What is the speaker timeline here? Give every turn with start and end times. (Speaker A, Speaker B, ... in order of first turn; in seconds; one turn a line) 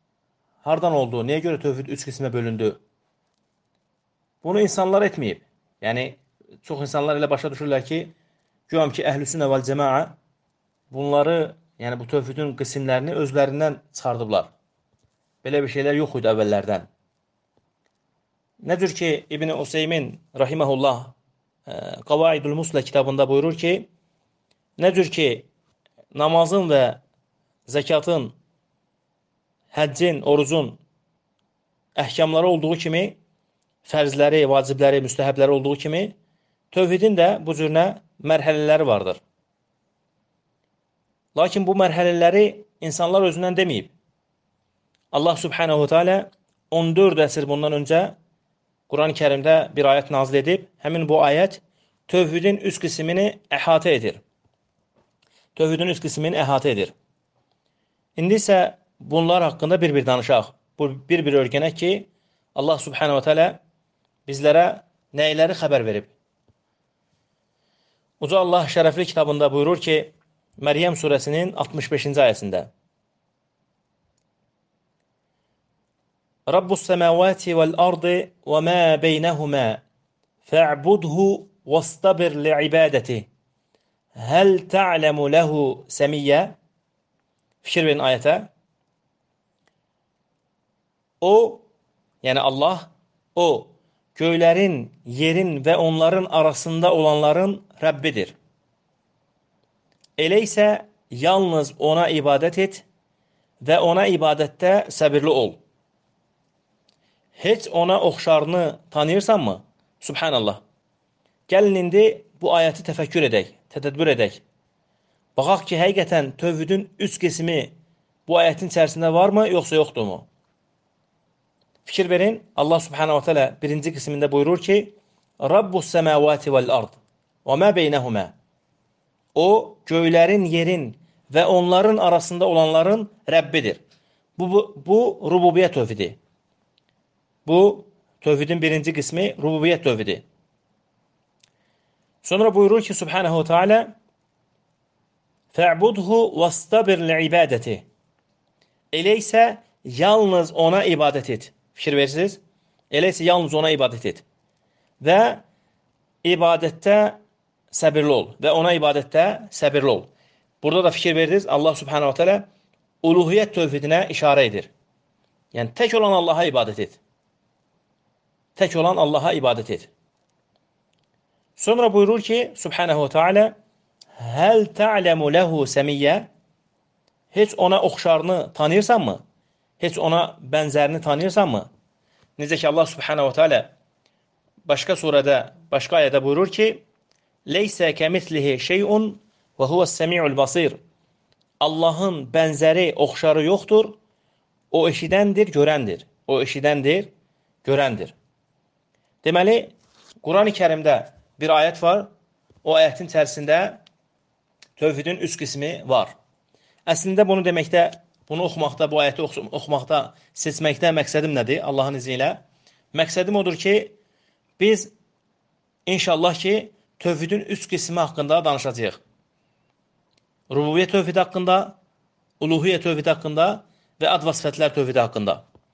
Speaker A: 0.6-2.8
Speaker A: 4.4-8.1
Speaker A: 8.7-10.2
Speaker A: 10.9-14.5
Speaker A: 15.4-16.9
Speaker A: 18.6-21.1
Speaker A: 21.7-23.9
Speaker A: 24.8-25.5
Speaker A: 26.1-27.0
Speaker A: 27.6-28.3
Speaker A: 29.7-30.8
Speaker A: 32.0-33.2
Speaker A: 33.8-36.1
Speaker A: 36.7-39.2
Speaker A: 41.3-43.9
Speaker A: 45.1-48.1
Speaker A: 48.9-54.2
Speaker A: 55.5-56.9
Speaker A: 58.2-63.6
Speaker A: 64.3-66.1
Speaker A: 68.2-72.7
Speaker A: 76.5-79.8
Speaker A: 80.4-83.3
Speaker A: 84.2-86.6
Speaker A: 87.6-88.5
Speaker A: 91.2-91.7
Speaker A: 92.2-98.3
Speaker A: 100.2-102.8
Speaker A: 103.6-105.6
Speaker A: 107.4-110.6
Speaker A: 111.5-114.4
Speaker A: 115.3-117.7
Speaker A: 118.3-120.3
Speaker A: 121.8-128.3
Speaker A: 129.3-133.8
Speaker A: 134.4-136.2
Speaker A: 137.4-140.2
Speaker A: 142.2-143.9
Speaker A: 145.5-147.8
Speaker A: 148.9-152.4
Speaker A: 152.9-154.2
Speaker A: 155.0-155.4
Speaker A: 156.2-157.2
Speaker A: 157.7-160.1
Speaker A: 160.6-162.5
Speaker A: 163.0-164.7
Speaker A: 165.5-167.0
Speaker A: 168.6-169.9
Speaker A: 171.6-173.5
Speaker A: 174.2-176.3
Speaker A: 177.3-179.2
Speaker A: 179.8-181.7
Speaker A: 182.4-183.7
Speaker A: 184.7-186.8
Speaker A: 187.4-190.8
Speaker A: 191.6-194.0
Speaker A: 194.7-197.1
Speaker A: 197.6-198.1
Speaker A: 199.2-202.1
Speaker A: 202.6-203.8
Speaker A: 204.8-206.1
Speaker A: 206.9-212.4
Speaker A: 212.9-213.9
Speaker A: 214.6-214.9
Speaker A: 215.9-219.0
Speaker A: 220.5-221.8
Speaker A: 222.4-225.4